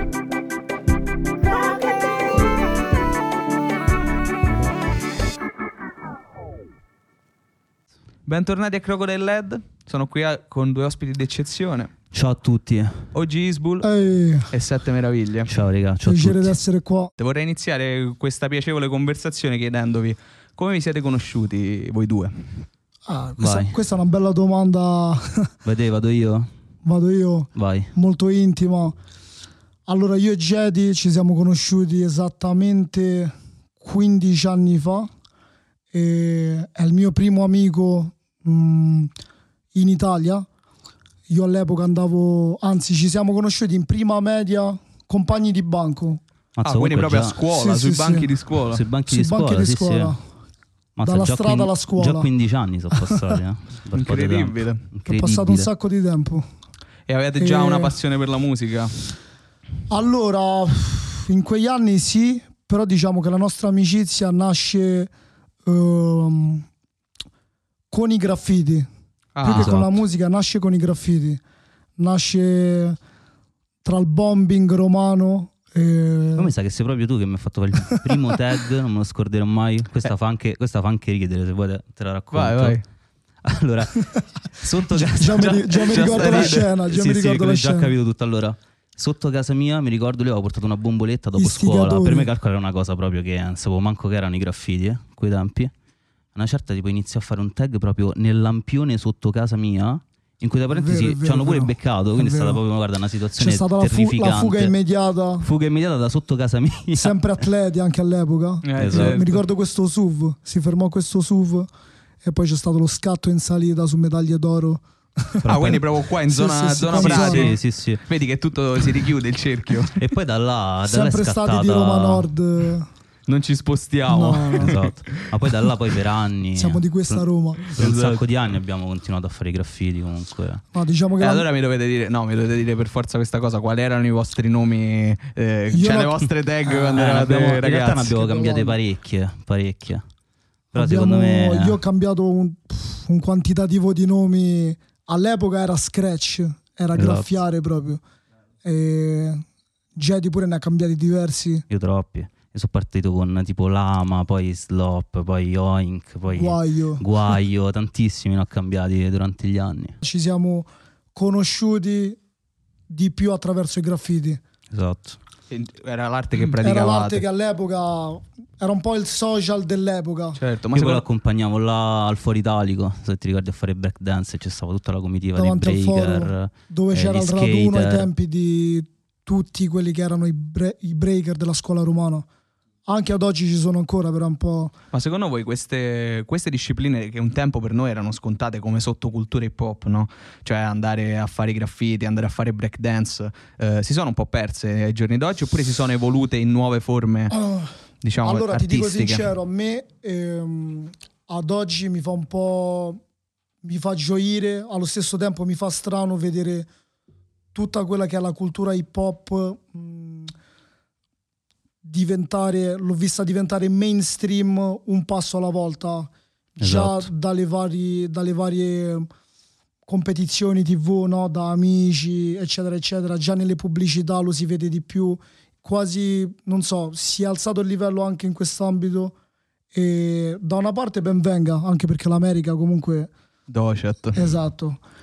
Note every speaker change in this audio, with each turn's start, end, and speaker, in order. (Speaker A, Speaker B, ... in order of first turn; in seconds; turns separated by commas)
Speaker A: 8.3-11.9, Speaker B: 12.1-13.1, Speaker A: 13.1-13.9, Speaker C: 13.8-14.6, Speaker A: 14.5-15.5, Speaker B: 15.5-16.6, Speaker C: 16.0-17.1, Speaker A: 17.2-22.5, Speaker C: 23.1-25.5, Speaker B: 23.4-23.8, Speaker B: 25.6-26.5, Speaker C: 26.9-29.0, Speaker B: 27.6-27.9, Speaker C: 29.9-35.1, Speaker C: 35.9-39.1, Speaker C: 39.7-40.5, Speaker C: 41.3-46.2, Speaker B: 46.6-47.4, Speaker A: 46.6-48.8, Speaker C: 47.5-48.3, Speaker B: 48.7-50.2, Speaker C: 49.1-50.2, Speaker B: 51.0-55.7, Speaker C: 51.0-52.3, Speaker C: 53.0-53.4, Speaker A: 53.9-54.9, Speaker C: 55.1-56.5, Speaker A: 57.1-58.9, Speaker C: 57.4-58.0, Speaker C: 59.9-65.1, Speaker C: 65.7-66.7, Speaker C: 67.9-68.9, Speaker A: 69.4-69.8, Speaker C: 69.4-71.4, Speaker B: 69.5-70.0, Speaker C: 72.0-73.0, Speaker C: 73.8-76.5, Speaker B: 76.4-82.8, Speaker A: 82.3-82.8, Speaker B: 83.4-95.7, Speaker C: 85.0-87.9, Speaker A: 85.4-86.7, Speaker C: 91.4-92.3, Speaker B: 96.3-104.7, Speaker C: 100.7-102.6, Speaker C: 103.4-105.5, Speaker B: 105.4-107.2, Speaker C: 106.9-111.7, Speaker A: 108.6-109.4, Speaker B: 108.8-109.2, Speaker C: 112.2-117.5, Speaker A: 115.4-120.0, Speaker B: 115.5-115.8, Speaker B: 116.9-118.0, Speaker B: 120.0-122.3, Speaker C: 120.9-122.9, Speaker A: 123.3-125.7, Speaker C: 124.1-124.8, Speaker B: 124.6-130.6, Speaker C: 126.5-127.6, Speaker A: 127.6-128.2, Speaker C: 130.7-131.5, Speaker A: 131.2-138.2, Speaker C: 135.7-136.9, Speaker B: 137.0-140.0, Speaker C: 138.2-138.8, Speaker B: 140.7-141.8, Speaker C: 140.7-148.0, Speaker B: 146.9-147.3, Speaker C: 148.6-149.4, Speaker C: 150.0-151.7, Speaker B: 151.7-160.0, Speaker C: 156.3-157.1, Speaker C: 160.0-162.2, Speaker C: 162.9-164.4, Speaker B: 164.7-165.2, Speaker A: 165.5-167.2, Speaker C: 166.6-170.4, Speaker A: 170.4-171.0, Speaker B: 170.7-178.1, Speaker C: 175.3-182.3, Speaker C: 182.9-184.7, Speaker A: 184.9-197.4, Speaker C: 197.3-197.7, Speaker A: 198.0-199.3, Speaker C: 198.2-203.0, Speaker C: 203.6-206.7, Speaker C: 207.5-210.3, Speaker C: 211.8-219.1, Speaker B: 216.6-217.1, Speaker C: 219.9-229.2, Speaker C: 229.7-233.1, Speaker A: 233.5-234.3, Speaker C: 234.1-234.8